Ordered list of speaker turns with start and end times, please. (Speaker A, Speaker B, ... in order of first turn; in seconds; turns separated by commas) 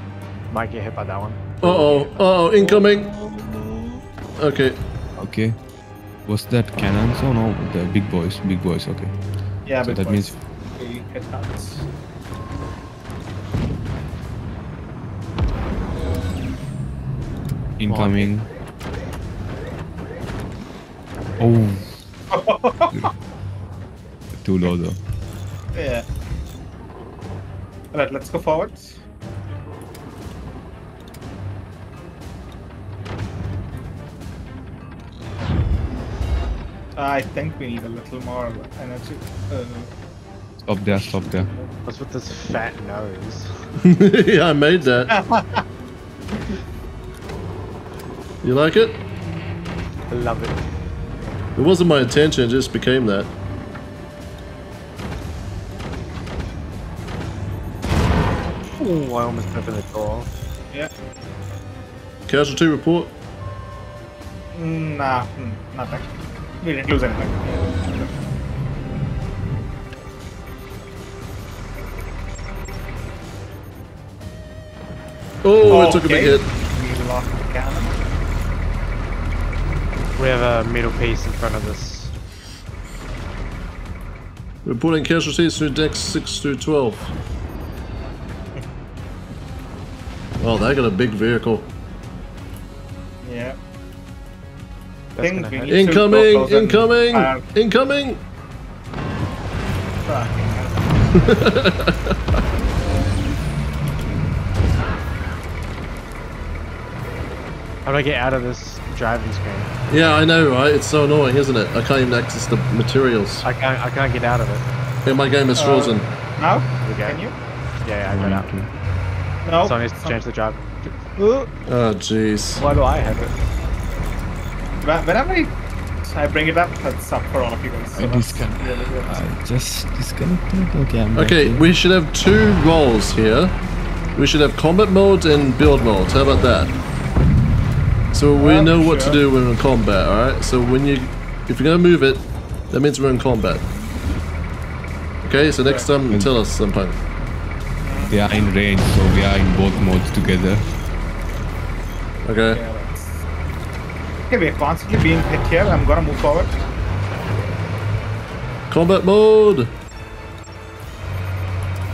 Speaker A: 0.5-4.0, Speaker B: 1.6-3.1, Speaker B: 4.4-4.8, Speaker C: 5.2-5.6, Speaker C: 6.3-9.2, Speaker D: 9.7-11.9, Speaker C: 9.8-10.4, Speaker C: 17.8-18.5, Speaker A: 17.9-18.3, Speaker C: 21.4-22.0, Speaker D: 22.3-23.1, Speaker C: 24.4-25.0, Speaker D: 25.7-26.1, Speaker D: 27.9-28.8, Speaker D: 37.0-39.9, Speaker C: 40.6-41.5, Speaker D: 41.0-41.7, Speaker A: 41.9-43.6, Speaker B: 43.8-45.1, Speaker D: 45.1-45.6, Speaker B: 48.4-49.0, Speaker A: 50.1-50.6, Speaker B: 51.6-53.3, Speaker A: 58.8-60.3, Speaker B: 62.3-63.1, Speaker D: 64.5-66.1, Speaker D: 66.6-68.2, Speaker B: 75.4-76.5, Speaker D: 75.7-78.0, Speaker A: 80.2-82.1, Speaker B: 84.7-87.1, Speaker B: 90.4-91.7, Speaker D: 93.2-93.6, Speaker A: 95.2-95.8, Speaker D: 95.2-97.4, Speaker B: 95.7-98.2, Speaker D: 100.0-100.9, Speaker B: 101.2-102.1, Speaker A: 107.8-109.8, Speaker B: 109.9-113.5, Speaker A: 113.4-114.7, Speaker B: 115.0-116.1, Speaker D: 115.6-117.3, Speaker A: 116.8-117.2, Speaker A: 117.8-118.5, Speaker C: 118.1-118.7, Speaker D: 119.4-120.2, Speaker A: 119.6-121.5, Speaker B: 121.7-122.6, Speaker A: 122.6-123.3, Speaker D: 124.8-125.5, Speaker D: 126.0-129.2, Speaker C: 128.0-131.7, Speaker B: 131.1-133.6, Speaker B: 134.2-136.7, Speaker B: 138.1-143.7, Speaker D: 138.4-139.2, Speaker B: 145.2-147.0, Speaker D: 145.7-145.9, Speaker C: 146.1-146.3, Speaker D: 147.8-148.5, Speaker C: 148.1-150.7, Speaker B: 152.2-152.6, Speaker D: 152.5-153.2, Speaker D: 154.3-156.6, Speaker B: 158.7-159.8